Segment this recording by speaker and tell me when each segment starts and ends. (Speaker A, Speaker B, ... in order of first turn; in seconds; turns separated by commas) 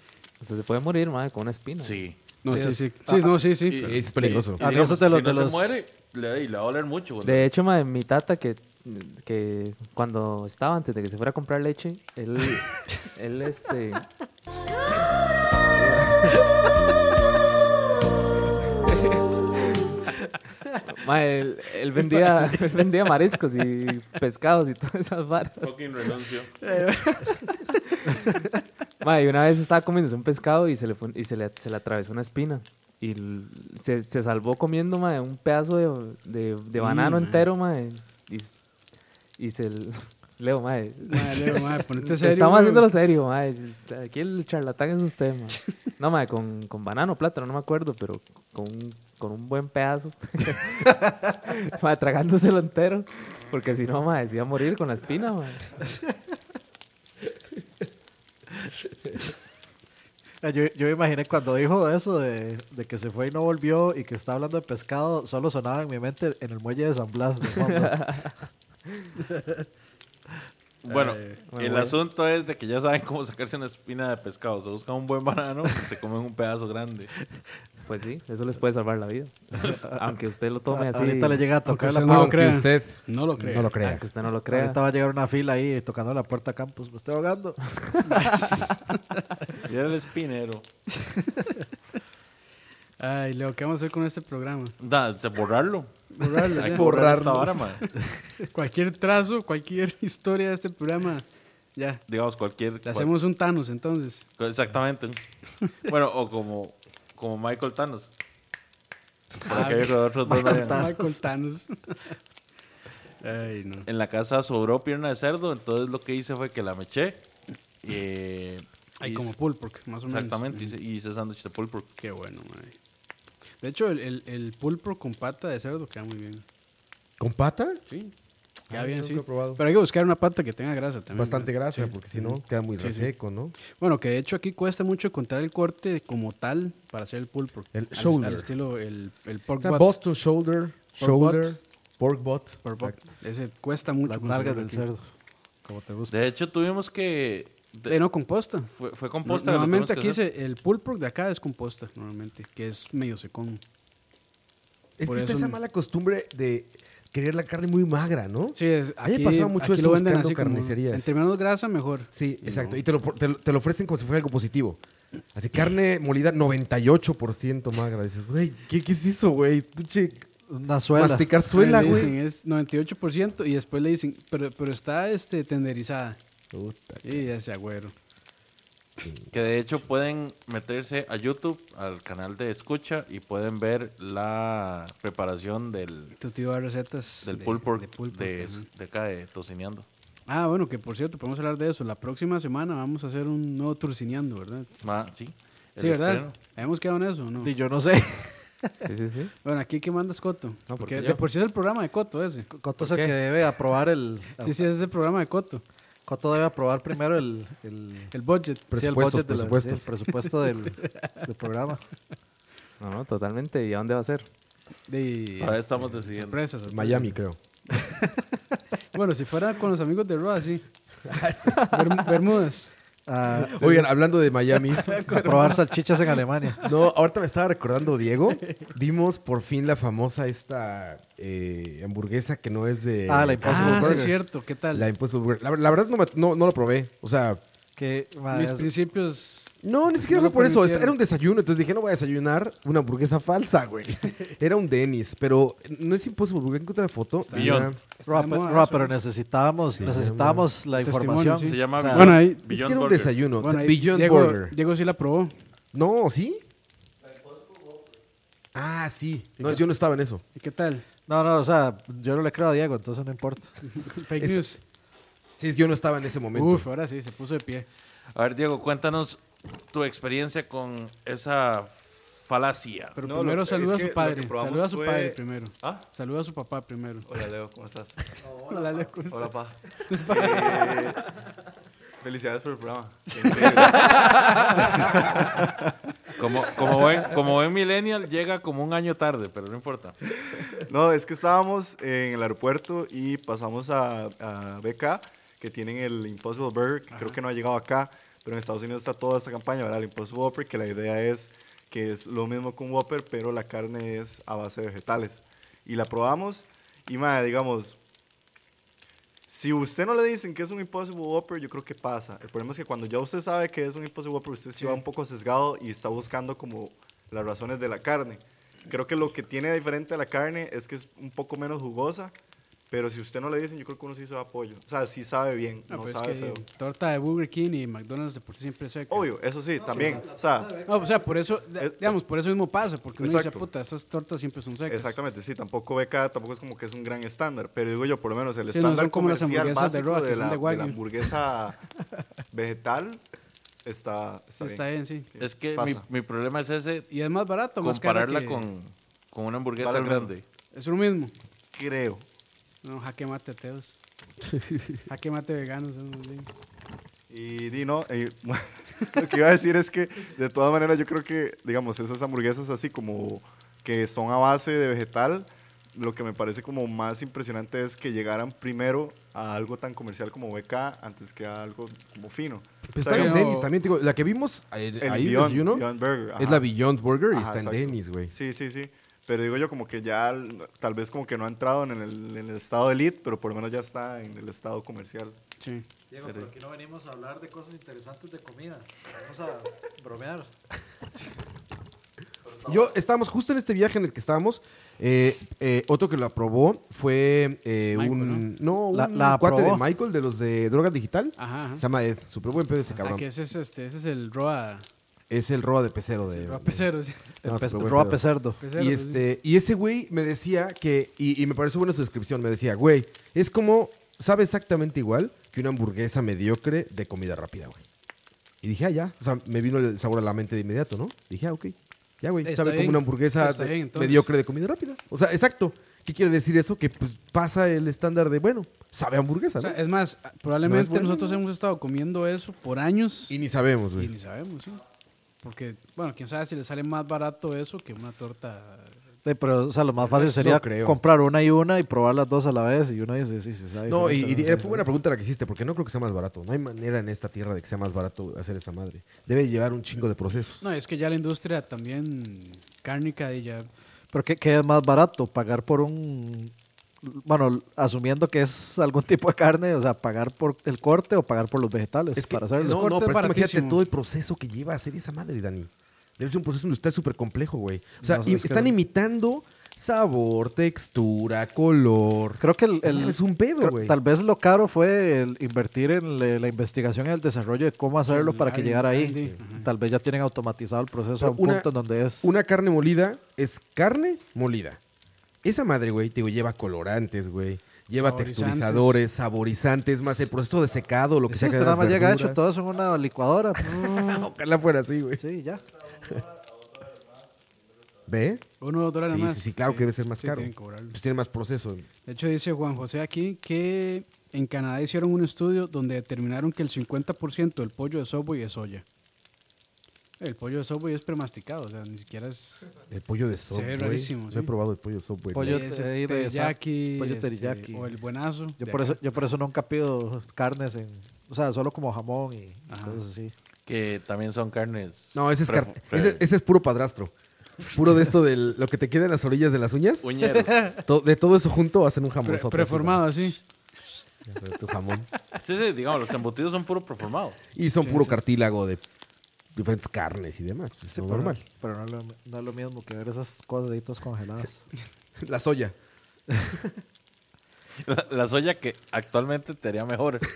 Speaker A: 0.4-2.0, Speaker B: 1.8-2.2, Speaker C: 2.4-4.0, Speaker D: 2.5-3.4, Speaker B: 3.7-7.5, Speaker E: 3.8-4.6, Speaker D: 4.6-5.8, Speaker A: 7.2-14.0, Speaker A: 15.7-16.3, Speaker A: 18.9-19.8, Speaker A: 20.9-25.7, Speaker B: 25.6-26.5, Speaker C: 26.6-27.6, Speaker A: 29.0-38.6, Speaker C: 36.8-37.5, Speaker A: 39.4-55.7, Speaker C: 41.0-42.9, Speaker D: 60.4-68.3, Speaker A: 67.7-68.3, Speaker B: 70.8-77.1, Speaker C: 70.9-71.4, Speaker A: 71.5-72.0, Speaker A: 77.8-81.5, Speaker D: 80.7-82.4, Speaker C: 81.7-83.7, Speaker E: 82.0-84.0, Speaker A: 83.8-84.8, Speaker D: 84.5-88.6, Speaker C: 88.1-89.2, Speaker B: 89.6-90.6, Speaker C: 93.0-94.7, Speaker B: 94.8-97.8, Speaker C: 96.1-96.9, Speaker E: 96.5-97.7, Speaker C: 98.5-102.0, Speaker B: 102.1-103.1, Speaker C: 102.8-104.2, Speaker B: 104.4-105.2, Speaker B: 105.8-108.1, Speaker B: 109.4-110.9, Speaker C: 109.5-112.2, Speaker D: 110.3-111.2, Speaker C: 113.2-113.9, Speaker B: 113.9-117.2, Speaker B: 117.8-119.3, Speaker C: 119.0-120.7, Speaker B: 120.1-121.9, Speaker C: 122.0-122.8, Speaker C: 123.6-126.4, Speaker E: 127.2-127.8, Speaker C: 127.9-128.1, Speaker E: 128.7-129.6, Speaker C: 128.7-133.1, Speaker E: 131.1-133.5, Speaker C: 133.7-139.9, Speaker E: 137.7-138.5, Speaker E: 139.6-143.0, Speaker C: 141.0-141.5, Speaker C: 142.6-144.8, Speaker D: 144.1-145.1, Speaker D: 145.6-146.2, Speaker B: 146.1-147.9, Speaker C: 147.9-148.7, Speaker B: 148.7-150.2, Speaker C: 149.2-153.6, Speaker E: 155.0-161.1, Speaker C: 155.0-155.6, Speaker C: 158.5-162.8, Speaker E: 162.1-164.8, Speaker E: 165.3-170.3, Speaker D: 170.5-172.0, Speaker E: 170.9-172.2, Speaker C: 171.5-176.2, Speaker E: 176.5-177.3, Speaker C: 177.0-177.9, Speaker B: 179.3-186.2, Speaker C: 186.2-188.7, Speaker B: 187.2-189.8, Speaker C: 190.3-194.7, Speaker B: 194.8-196.3, Speaker C: 195.8-197.5, Speaker D: 197.4-198.8, Speaker A: 198.8-199.3, Speaker C: 199.4-202.5, Speaker A: 200.7-201.2, Speaker D: 202.5-204.7, Speaker A: 202.8-203.1, Speaker C: 204.4-205.6, Speaker D: 206.1-208.1, Speaker C: 208.1-208.7, Speaker E: 208.7-209.9, Speaker D: 208.7-211.8, Speaker C: 210.8-211.1, Speaker A: 212.8-214.2, Speaker C: 214.9-217.2, Speaker B: 215.4-216.4, Speaker E: 216.7-217.4, Speaker C: 218.9-220.7, Speaker E: 221.1-221.8, Speaker C: 221.6-222.7, Speaker D: 223.1-223.9, Speaker E: 223.5-225.1, Speaker C: 224.8-225.6, Speaker D: 225.1-226.6, Speaker E: 226.6-234.2, Speaker D: 233.1-234.2, Speaker C: 233.4-234.9, Speaker E: 234.7-237.4, Speaker D: 237.8-238.7, Speaker C: 238.3-240.9, Speaker E: 239.6-247.8, Speaker C: 247.2-248.9, Speaker B: 247.3-247.7, Speaker D: 248.1-252.2, Speaker E: 249.8-250.5, Speaker C: 250.7-252.4, Speaker B: 251.4-253.1, Speaker E: 252.5-254.6, Speaker C: 253.4-255.3, Speaker E: 255.7-256.4, Speaker E: 258.5-260.2, Speaker C: 259.4-259.6, Speaker C: 260.3-260.8, Speaker D: 261.1-263.5, Speaker C: 263.7-264.6, Speaker E: 264.2-264.5, Speaker E: 265.4-266.6, Speaker C: 266.3-267.6, Speaker B: 268.1-269.2, Speaker B: 269.7-273.0, Speaker C: 273.0-277.1, Speaker F: 273.0-275.9, Speaker F: 277.1-278.0, Speaker D: 278.2-278.9, Speaker C: 278.5-279.3, Speaker F: 279.1-281.0, Speaker C: 279.9-280.7, Speaker F: 282.0-285.7, Speaker C: 283.4-284.8, Speaker B: 286.2-289.9, Speaker F: 290.6-307.8, Speaker C: 296.9-297.2, Speaker F: 309.3-322.1, Speaker F: 322.7-326.4, Speaker C: 325.7-329.1, Speaker F: 328.9-330.5, Speaker D: 329.5-330.9, Speaker C: 330.6-335.0, Speaker F: 331.6-331.9, Speaker F: 333.0-333.4, Speaker F: 334.7-341.6, Speaker C: 338.5-340.8, Speaker F: 342.3-343.0, Speaker F: 343.6-344.6, Speaker C: 344.4-345.1, Speaker F: 345.1-345.8, Speaker B: 345.2-346.9, Speaker C: 346.9-348.5, Speaker B: 347.6-350.2, Speaker F: 349.6-350.1, Speaker C: 350.5-351.1, Speaker F: 351.5-352.0, Speaker C: 352.6-353.8, Speaker E: 354.3-354.7, Speaker C: 354.9-356.3, Speaker F: 357.1-373.2, Speaker E: 372.7-378.1, Speaker C: 372.8-373.5, Speaker F: 374.8-376.4, Speaker F: 377.1-385.2, Speaker C: 385.4-385.6, Speaker D: 385.9-390.3, Speaker E: 392.4-403.0, Speaker C: 397.7-398.3, Speaker D: 398.7-399.6, Speaker C: 401.2-401.6, Speaker C: 402.8-404.6, Speaker E: 405.1-406.7, Speaker C: 406.1-407.1, Speaker D: 407.2-408.4, Speaker E: 407.2-417.6, Speaker C: 408.4-409.0, Speaker E: 418.4-429.6, Speaker C: 422.2-424.1, Speaker C: 429.4-433.2, Speaker E: 430.4-431.2, Speaker E: 433.1-433.9, Speaker C: 433.8-434.6, Speaker C: 435.2-438.8, Speaker D: 439.0-444.6, Speaker E: 439.8-440.8, Speaker E: 443.6-450.4, Speaker C: 450.4-453.5, Speaker D: 453.9-462.6, Speaker E: 461.9-473.8, Speaker C: 462.4-463.6, Speaker D: 467.8-468.5, Speaker D: 472.2-482.1, Speaker C: 477.9-479.5, Speaker E: 481.0-481.5, Speaker E: 482.0-484.6, Speaker E: 485.2-492.2, Speaker C: 487.8-488.8, Speaker D: 491.1-493.9, Speaker E: 493.4-495.0, Speaker D: 495.0-495.5, Speaker E: 497.9-498.2, Speaker C: 498.4-500.8, Speaker E: 498.8-501.7, Speaker C: 501.9-508.6, Speaker C: 510.0-512.5, Speaker E: 512.7-515.5, Speaker C: 513.3-514.3, Speaker D: 515.1-517.7, Speaker C: 515.3-518.8, Speaker D: 518.4-523.1, Speaker C: 522.5-522.8, Speaker B: 523.5-526.0, Speaker E: 524.9-532.9, Speaker B: 529.8-530.4, Speaker C: 530.3-530.6, Speaker C: 532.0-533.2, Speaker E: 534.1-534.9, Speaker B: 535.2-537.2, Speaker E: 537.3-538.6, Speaker C: 537.6-538.0, Speaker E: 539.3-541.2, Speaker D: 540.7-544.5, Speaker E: 545.0-545.5, Speaker B: 547.6-550.1